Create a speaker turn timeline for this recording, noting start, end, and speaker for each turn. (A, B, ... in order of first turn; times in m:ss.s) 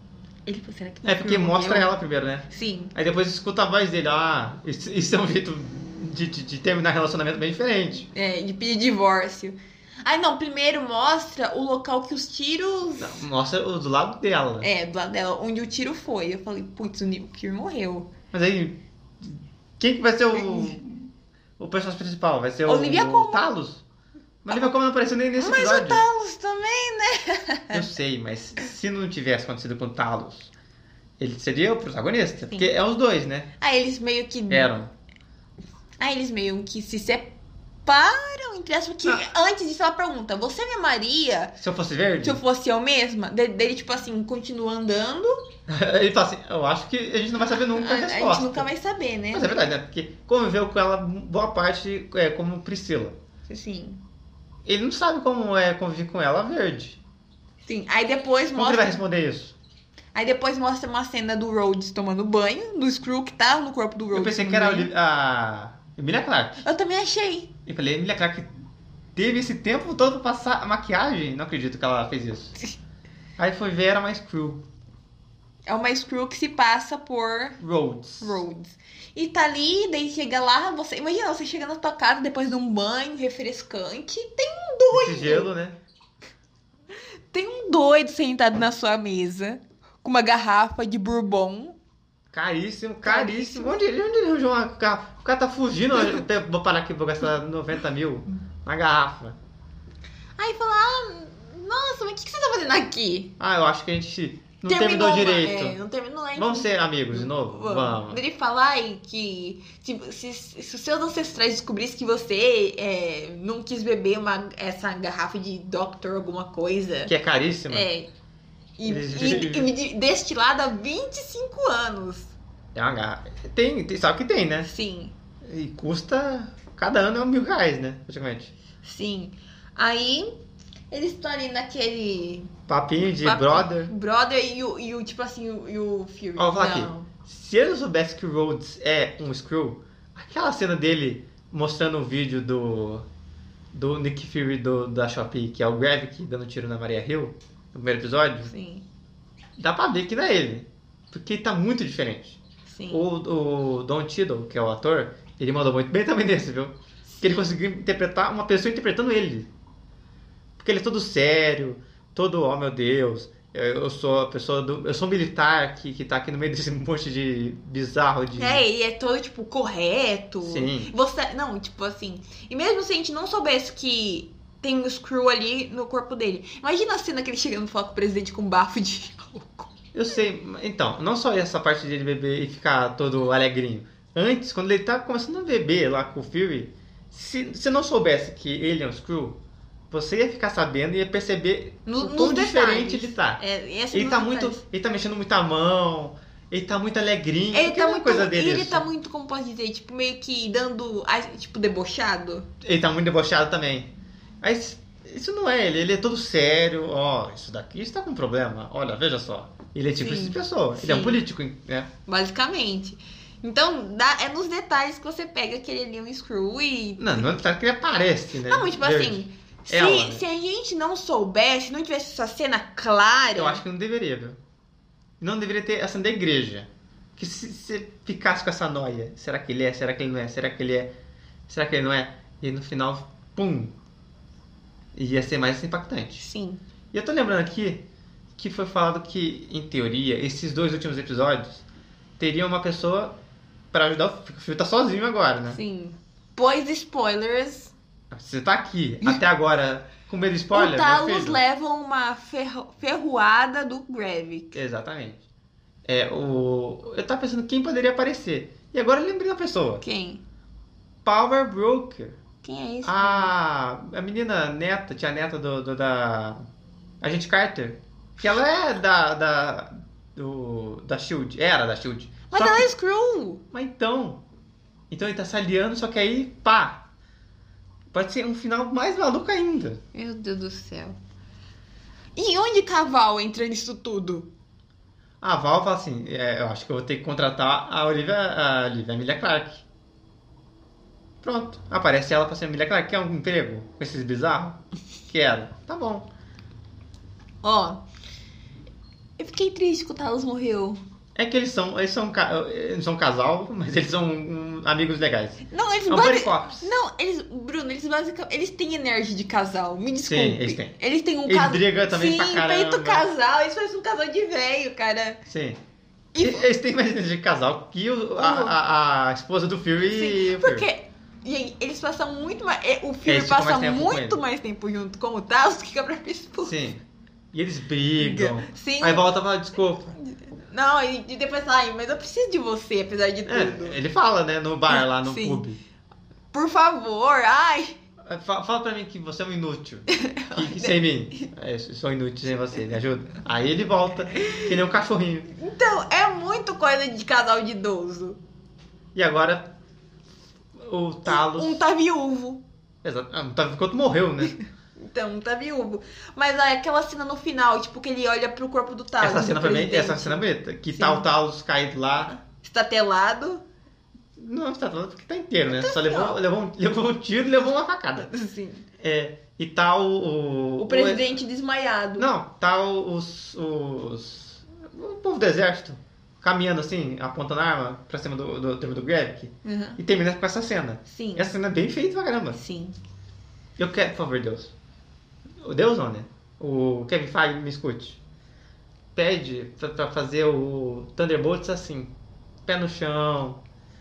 0:00.5-0:01.9 A
0:01.0-0:08.1 B
0:02.5-0:02.9 A
0:08.1-0:13.2 A
0:13.0-0:14.7 B
0:14.6-0:18.1 A
0:18.3-0:23.8 B
0:20.4-0:20.8 A
0:22.6-0:23.5 A
0:24.4-0:26.0 B
0:25.4-0:27.8 A
0:27.7-0:30.5 B
0:31.2-0:33.5 B
0:33.6-0:34.7 A
0:34.5-0:34.9 B
0:36.0-0:37.3 A
0:37.9-0:41.6 A
0:41.6-0:42.4 B
0:42.2-0:45.4 A
0:45.7-0:48.7 B
0:47.7-0:49.6 A
0:49.3-0:53.2 B
0:53.5-0:54.0 A
0:54.6-0:57.0 B
0:57.6-0:59.0 A
0:58.5-0:59.6 B
1:00.1-1:04.9 A
1:04.1-1:06.6 B
1:06.6-1:07.5 A
1:07.6-1:08.5 B
1:09.1-1:12.5 B
1:13.4-1:14.6 B
1:15.7-1:17.6 A
1:17.6-1:18.4 B
1:18.2-1:25.5 A
1:24.9-1:25.8 B
1:27.3-1:31.8 A
1:32.3-1:39.4 B
1:33.0-1:33.8 A
1:40.4-1:43.3 A
1:43.4-1:45.8 B
1:44.7-1:57.1 A
1:46.4-1:48.2 B
1:57.0-1:57.9 B
1:57.7-1:58.1 A
1:58.8-2:02.4 A
1:58.8-1:59.7 B
2:02.7-2:04.7 B
2:04.6-2:05.1 A
2:05.4-2:08.5 B
2:08.8-2:10.3 A
2:10.9-2:17.1 A
2:12.7-2:13.9 B
2:16.4-2:23.0 B
2:23.7-2:28.5 B
2:28.4-2:28.9 A
2:29.6-2:39.5 B
2:32.7-2:33.0 A
2:37.1-2:37.4 A
2:40.6-2:48.6 B
2:48.4-2:59.7 A
2:50.4-2:50.9 B
2:59.9-3:09.4 B
3:09.9-3:13.4 B
3:11.9-3:14.6 A
3:13.9-3:18.9 B
3:17.5-3:22.5 A
3:22.6-3:23.9 B
3:24.4-3:31.9 B
3:30.0-3:31.2 A
3:32.1-3:37.3 A
3:37.0-3:40.2 B
3:38.5-3:43.6 A
3:43.4-3:44.4 B
3:45.2-3:50.9 B
3:51.5-3:53.8 B
3:54.9-3:56.2 B
3:56.2-3:56.6 A
3:56.9-3:57.8 B
3:58.4-4:01.6 B
4:02.2-4:03.2 B
4:03.7-4:05.6 B
4:05.5-4:07.7 A
4:08.1-4:11.4 B
4:10.5-4:14.6 A
4:14.5-4:15.2 B
4:15.8-4:19.8 B
4:19.8-4:20.2 A
4:21.0-4:22.2 B
4:22.4-4:23.3 A
4:22.8-4:26.4 B
4:27.0-4:32.7 B
4:32.3-4:33.4 A
4:33.5-4:34.2 B
4:34.9-4:36.8 B
4:37.9-4:39.8 B
4:39.9-4:41.0 A
4:42.2-4:44.3 A
4:45.2-4:49.6 B
4:51.2-4:56.1 B
4:57.4-4:57.8 A
4:59.2-5:00.8 A
5:01.1-5:06.7 B
5:05.5-5:15.2 A
5:10.0-5:10.7 B
5:11.2-5:13.0 B
5:15.3-5:15.6 B
5:16.1-5:16.4 A
5:16.2-5:20.7 B
5:18.2-5:18.6 A
5:19.9-5:26.6 A
5:23.0-5:24.2 B
5:26.4-5:29.9 B
5:28.0-5:29.1 A
5:29.9-5:33.8 A
5:33.3-5:35.6 B
5:34.7-5:35.4 A
5:36.3-5:37.8 A
5:38.0-5:45.3 B
5:39.9-5:41.3 A
5:44.2-5:44.5 A
5:45.3-5:48.2 A
5:48.9-5:49.5 B
5:50.6-5:51.6 B
5:51.0-5:52.4 A
5:52.8-5:54.4 B
5:54.8-6:01.1 A
5:59.0-6:02.1 B
6:02.1-6:03.4 A
6:04.2-6:08.1 B
6:05.5-6:06.2 A
6:08.0-6:08.6 A
6:08.8-6:11.2 B
6:10.6-6:12.1 A
6:12.0-6:22.4 B
6:19.4-6:19.8 A
6:20.9-6:21.3 A
6:22.3-6:22.8 A
6:23.6-6:24.5 B
6:25.4-6:28.0 B
6:28.9-6:31.9 B
6:32.4-6:33.4 B